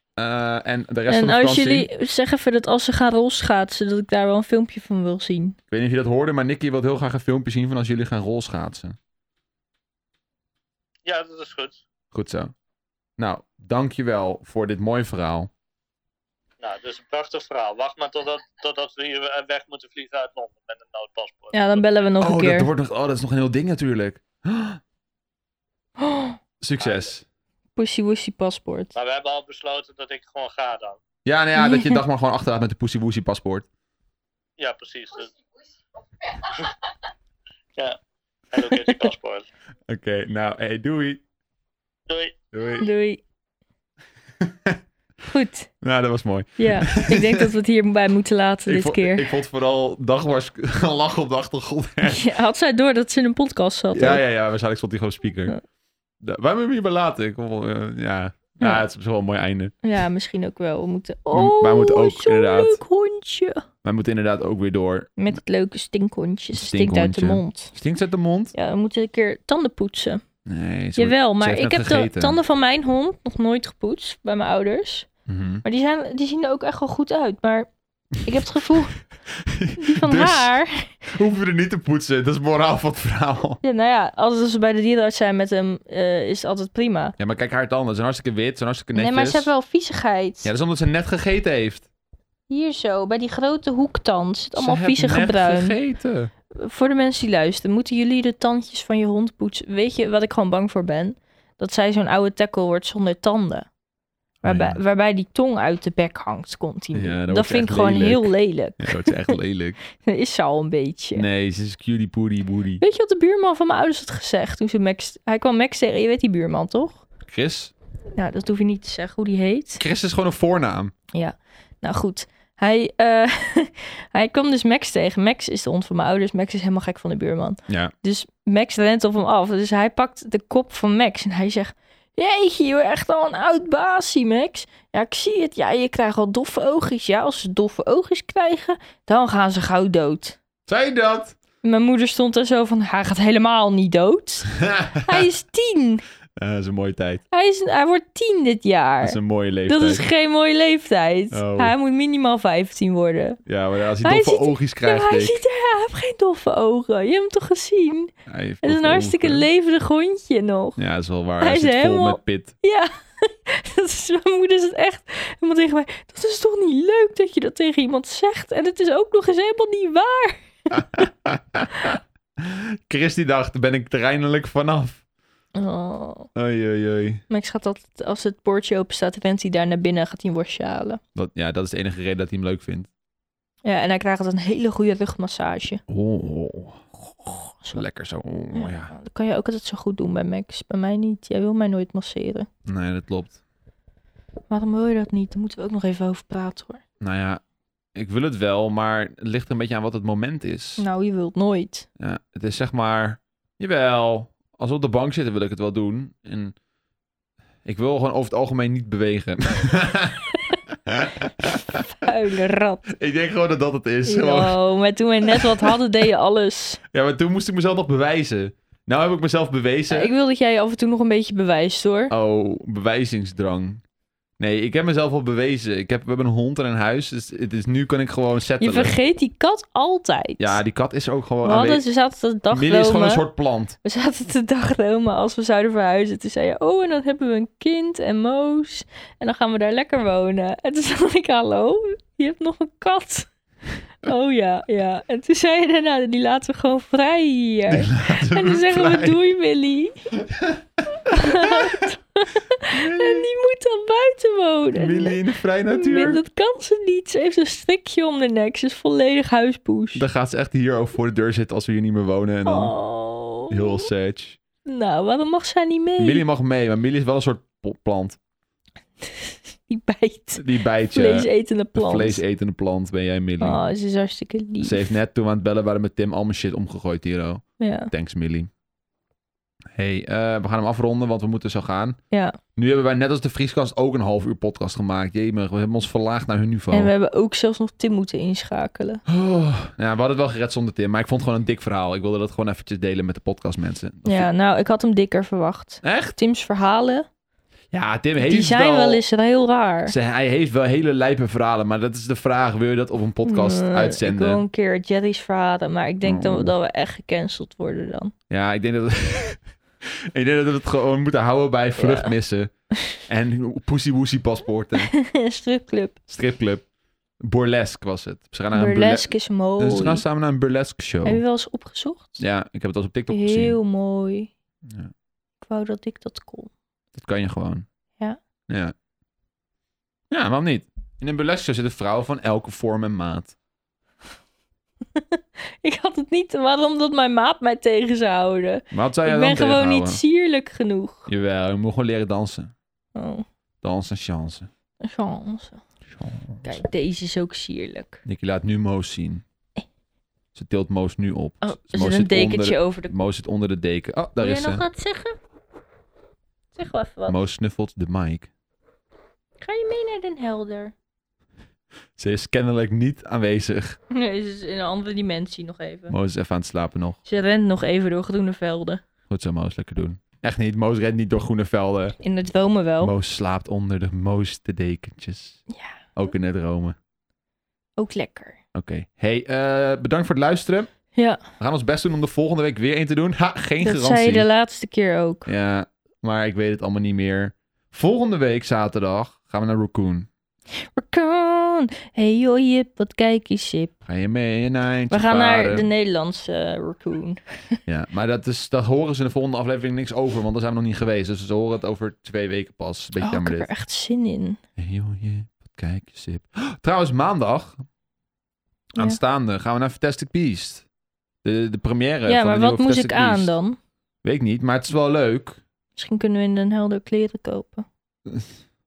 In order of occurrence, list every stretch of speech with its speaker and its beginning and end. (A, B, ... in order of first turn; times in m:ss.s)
0:00.2-0:01.9 A
0:01.1-0:05.6 B
0:05.7-0:09.0 A
0:11.0-0:11.8 C
0:12.1-0:12.5 A
0:13.2-0:15.5 A
0:16.6-0:21.8 C
0:21.5-0:22.7 B
0:22.2-0:24.8 A
0:26.0-0:26.4 B
0:26.6-0:27.2 A
0:26.8-0:27.1 C
0:27.8-0:28.9 B
0:28.9-0:31.0 C
0:31.2-0:33.6 A
0:31.6-0:32.0 B
0:34.6-0:35.3 C
0:36.4-0:36.7 C
0:38.5-0:39.5 C
0:38.8-0:39.1 B
0:39.9-0:41.2 A
0:42.1-0:42.4 C
0:42.5-0:42.9 A
0:42.8-0:43.2 B
0:44.4-0:44.8 A
0:45.3-0:45.7 B
0:45.8-0:47.5 A
0:46.6-0:49.3 B
0:48.6-0:52.2 A
0:52.0-0:54.2 B
0:53.9-0:55.6 A
0:56.2-0:59.7 A
0:59.8-1:03.6 B
1:01.3-1:02.8 A
1:03.8-1:05.2 A
1:05.2-1:07.7 B
1:06.5-1:08.5 A
1:08.5-1:10.2 B
1:10.4-1:12.4 A
1:11.0-1:15.1 B
1:15.3-1:15.6 A
1:15.6-1:17.7 B
1:18.2-1:19.0 B
1:19.4-1:20.5 A
1:19.8-1:21.0 B
1:21.1-1:23.6 A
1:23.6-1:27.1 B
1:27.2-1:29.5 A
1:28.9-1:30.5 B
1:30.4-1:31.9 A
1:32.5-1:35.8 B
1:34.6-1:36.3 A
1:36.5-1:43.7 B
1:44.4-1:49.4 B
1:44.4-1:44.8 A
1:46.9-1:49.8 A
1:50.0-1:51.2 B
1:51.1-1:52.8 A
1:52.8-1:57.0 B
1:57.3-1:57.7 A
1:58.1-1:59.8 B
1:59.8-2:00.9 A
2:01.1-2:20.4 B
2:07.7-2:07.9 A
2:20.7-2:21.4 A
2:21.6-2:24.5 B
2:24.5-2:25.3 A
2:25.0-2:26.0 B
2:26.4-2:27.2 A
2:27.3-2:33.4 B
2:29.0-2:30.0 A
2:31.3-2:31.7 A
2:33.5-2:35.4 A
2:34.0-2:38.1 B
2:38.3-2:39.5 A
2:38.6-2:40.8 B
2:40.8-2:42.5 A
2:41.4-2:50.5 B
2:50.7-2:55.0 A
2:55.6-2:56.3 B
2:56.3-2:57.2 A
2:57.3-3:01.0 B
3:01.1-3:02.9 A
3:03.6-3:05.8 B
3:05.9-3:06.8 A
3:07.1-3:07.8 B
3:07.7-3:08.9 A
3:08.5-3:12.5 B
3:12.6-3:13.4 A
3:14.5-3:16.8 B
3:17.0-3:17.4 A
3:18.0-3:20.8 A
3:20.8-3:21.9 B
3:22.0-3:26.5 A
3:27.6-3:30.3 A
3:30.8-3:31.8 A
3:31.4-3:32.8 B
3:32.9-3:34.6 A
3:34.0-3:36.8 B
3:35.3-3:35.7 A
3:36.9-3:40.1 A
3:39.9-3:42.1 B
3:42.1-3:43.8 A
3:44.4-3:49.0 A
3:48.6-3:50.6 B
3:50.4-3:51.8 A
3:51.4-3:53.3 B
3:52.5-3:53.8 A
3:53.8-4:03.3 B
4:04.0-4:10.0 B
4:07.7-4:09.2 A
4:10.2-4:11.9 A
4:11.0-4:15.2 B
4:12.7-4:13.3 A
4:14.7-4:16.2 A
4:15.7-4:20.0 B
4:19.9-4:22.7 A
4:22.4-4:23.9 B
4:23.5-4:24.4 A
4:24.6-4:26.2 B
4:26.0-4:28.2 A
4:29.0-4:32.2 B
4:30.4-4:33.6 A
4:33.4-4:34.8 B
4:34.6-4:38.5 A
4:37.6-4:37.9 B
4:39.7-4:42.0 A
4:42.1-4:42.4 B
4:42.6-4:46.9 A
4:46.7-4:49.0 B
4:49.1-4:54.3 A
4:54.0-4:57.1 B
4:55.8-4:56.2 A
4:57.7-4:59.0 A
4:58.2-5:00.0 B
4:59.9-5:04.4 A
5:03.2-5:08.1 B
5:06.0-5:06.5 A
5:08.3-5:12.5 A
5:11.8-5:12.1 B
5:13.0-5:14.9 A
5:14.8-5:16.0 B
5:16.1-5:16.6 A
5:17.2-5:21.2 A
5:18.5-5:20.0 B
5:21.0-5:22.2 B
5:22.2-5:23.6 A
5:23.1-5:24.3 B
5:24.6-5:24.9 A
5:25.4-5:26.5 B
5:26.9-5:27.6 A
5:28.5-5:28.7 A
5:30.1-5:33.3 A
5:34.9-5:41.1 B
5:38.7-5:40.0 A
5:41.1-5:42.5 A
5:42.9-5:43.2 B
5:43.6-5:44.5 A
5:44.8-5:45.6 B
5:45.9-5:46.6 A
5:46.4-5:48.0 B
5:48.0-5:49.2 A
5:50.3-5:54.6 A
5:51.4-5:52.9 B
5:54.2-5:55.2 B
5:56.5-5:57.2 B
5:57.1-5:58.3 A
5:59.4-6:00.7 B
6:02.0-6:03.8 A
6:03.9-6:05.9 B
6:05.9-6:07.0 A
6:07.0-6:08.8 B
6:09.1-6:12.0 A
6:12.0-6:12.9 B
6:12.8-6:15.4 A
6:15.5-6:15.8 B
6:15.9-6:16.8 A
6:17.8-6:18.4 B
6:18.5-6:20.7 A
6:20.9-6:21.2 B
6:21.4-6:24.2 A
6:23.6-6:25.3 B
6:25.2-6:30.1 A
6:30.6-6:33.7 B
6:33.8-6:35.7 A
6:34.9-6:37.6 B
6:37.7-6:43.5 A
6:43.0-6:44.4 B
6:44.6-6:47.6 A
6:48.8-6:50.6 A
6:51.2-6:53.3 A
6:52.1-6:53.6 B
6:54.0-6:55.4 A
6:55.8-6:57.6 B
6:58.1-6:58.4 A